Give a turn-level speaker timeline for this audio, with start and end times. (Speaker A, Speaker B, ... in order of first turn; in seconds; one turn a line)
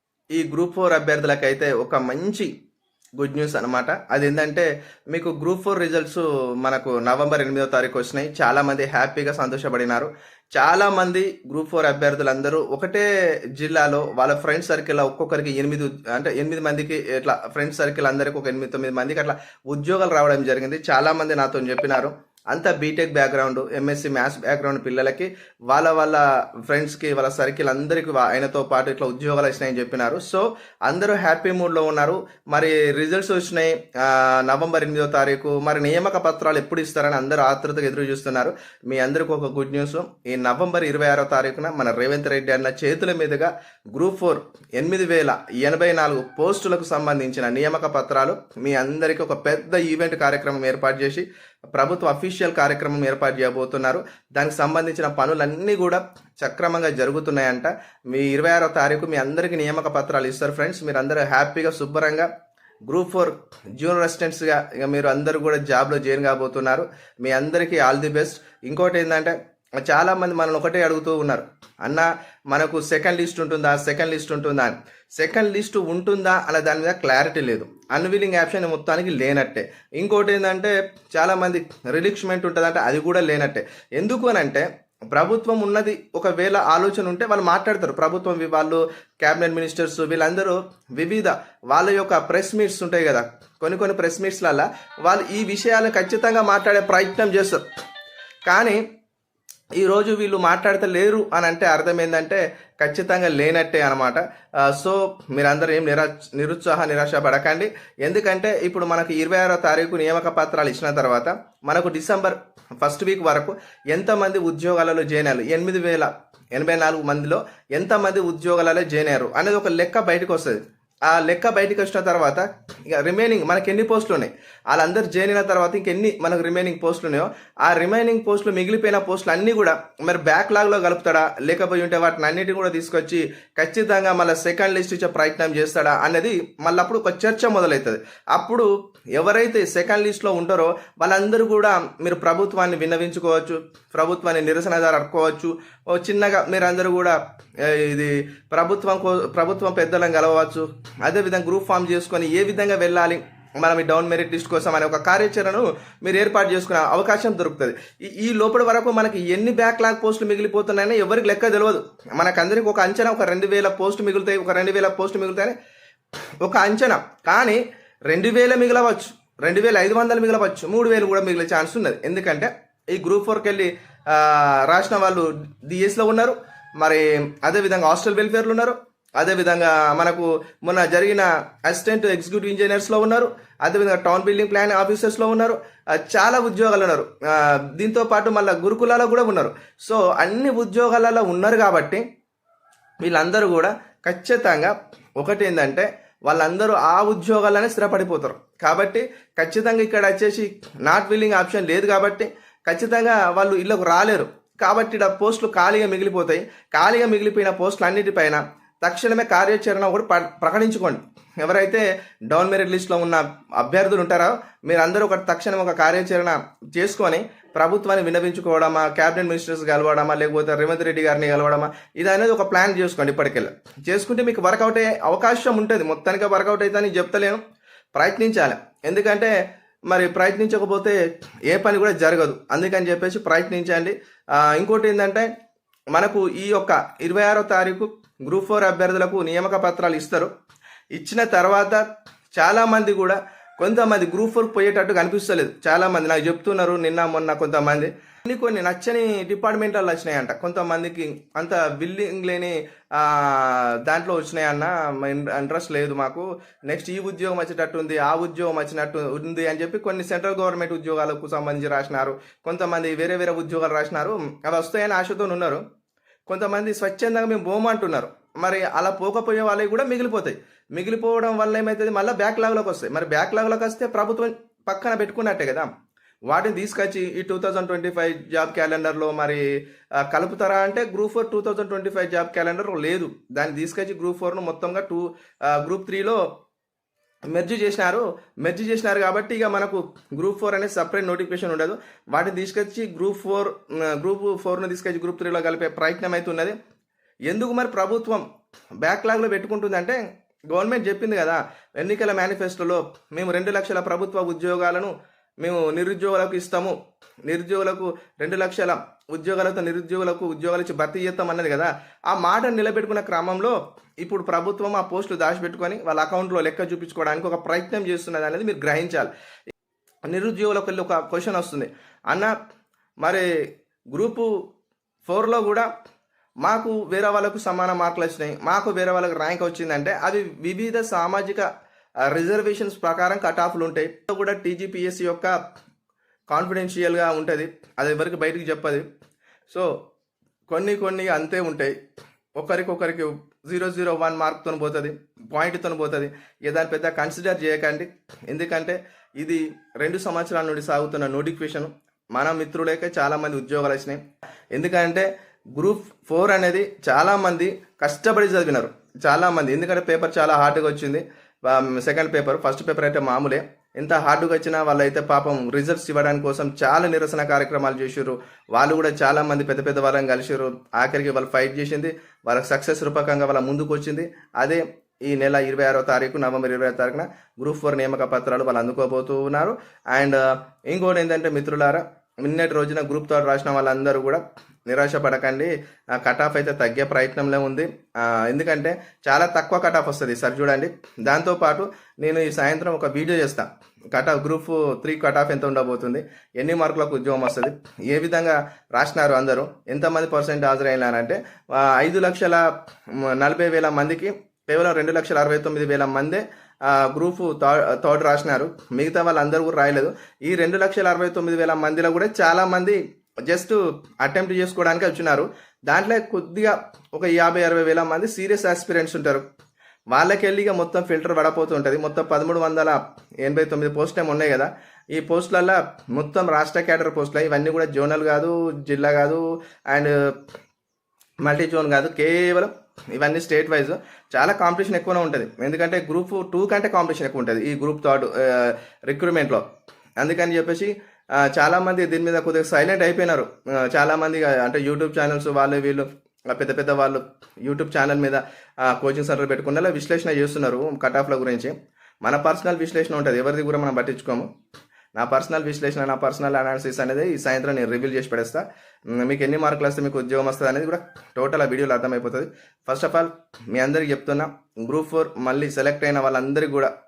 Speaker A: 0.3-2.5
Speaker A: 3.2-62.3
Speaker A: 62.9-97.6
Speaker A: 98.5-98.8
Speaker A: 99.8-165.6
Speaker A: 166.4-192.0
Speaker A: 193.0-227.4
Speaker A: 227.9-229.3
Speaker A: 229.9-231.0
Speaker A: 231.5-235.3
Speaker A: 235.9-240.3
Speaker A: 240.9-241.8
Speaker A: 242.3-265.6
Speaker A: 266.3-275.7
Speaker A: 276.3-279.4
Speaker A: 280.0-286.2
Speaker A: 287.3-296.5
Speaker A: 297.3-298.2
Speaker A: 298.8-306.7
Speaker A: 307.2-319.1
Speaker A: 320.1-322.3
Speaker A: 323.0-323.3
Speaker A: 323.9-324.4
Speaker A: 325.0-325.7
Speaker A: 326.4-331.5
Speaker A: 332.1-335.4
Speaker A: 336.3-338.9
Speaker A: 340.5-341.7
Speaker A: 342.4-354.0
Speaker A: 354.5-402.4
Speaker A: 403.0-412.8
Speaker A: 413.3-419.2
Speaker A: 419.9-430.0
Speaker A: 431.2-439.4
Speaker A: 440.0-454.3
Speaker A: 454.9-466.7